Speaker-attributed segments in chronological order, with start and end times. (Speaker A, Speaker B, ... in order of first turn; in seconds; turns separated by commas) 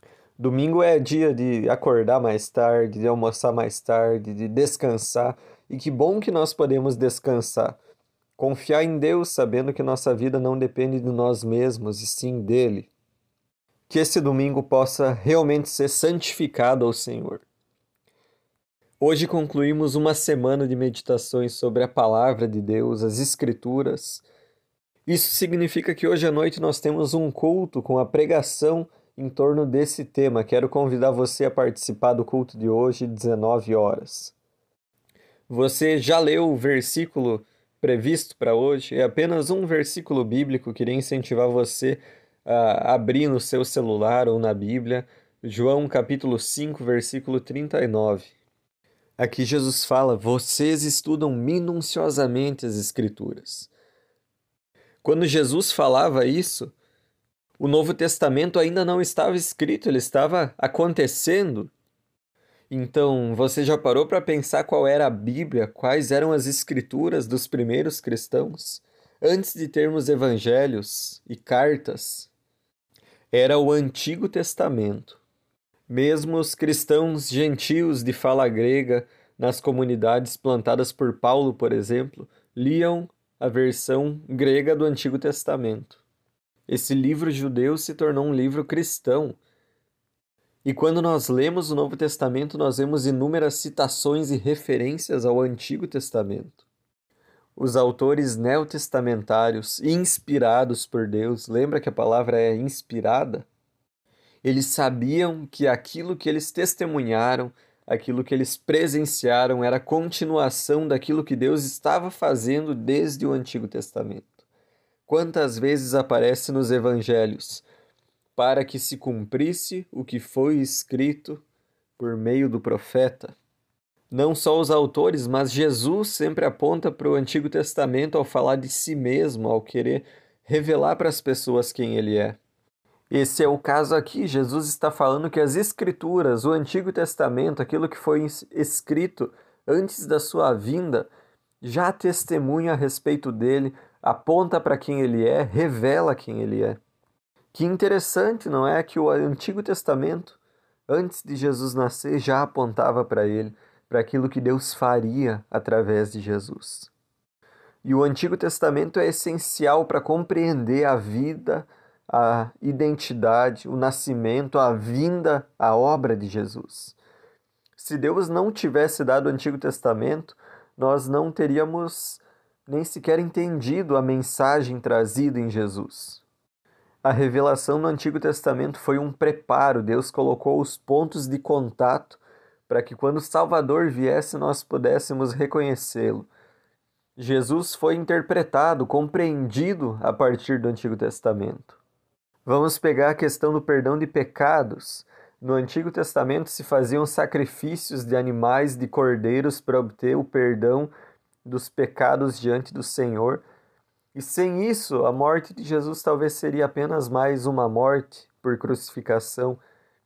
Speaker A: 0.4-7.8, Speaker A: 8.4-12.9, Speaker A: 13.9-17.4, Speaker A: 19.0-24.3, Speaker A: 25.1-34.3, Speaker A: 35.5-48.3, Speaker A: 49.2-53.7, Speaker A: 55.0-56.7, Speaker A: 57.6-61.7, Speaker A: 62.7-72.3, Speaker A: 73.3-75.2, Speaker A: 75.9-86.0, Speaker A: 86.7-89.4, Speaker A: 90.6-96.6, Speaker A: 97.6-103.5, Speaker A: 104.4-114.3, Speaker A: 115.1-117.6, Speaker A: 118.4-121.4, Speaker A: 122.0-123.4, Speaker A: 124.1-132.4, Speaker A: 133.1-141.1, Speaker A: 141.6-146.8, Speaker A: 147.5-156.9, Speaker A: 157.8-167.0, Speaker A: 167.8-176.2, Speaker A: 177.0-186.3, Speaker A: 187.2-191.8, Speaker A: 192.5-200.9, Speaker A: 201.4-203.4, Speaker A: 204.1-209.6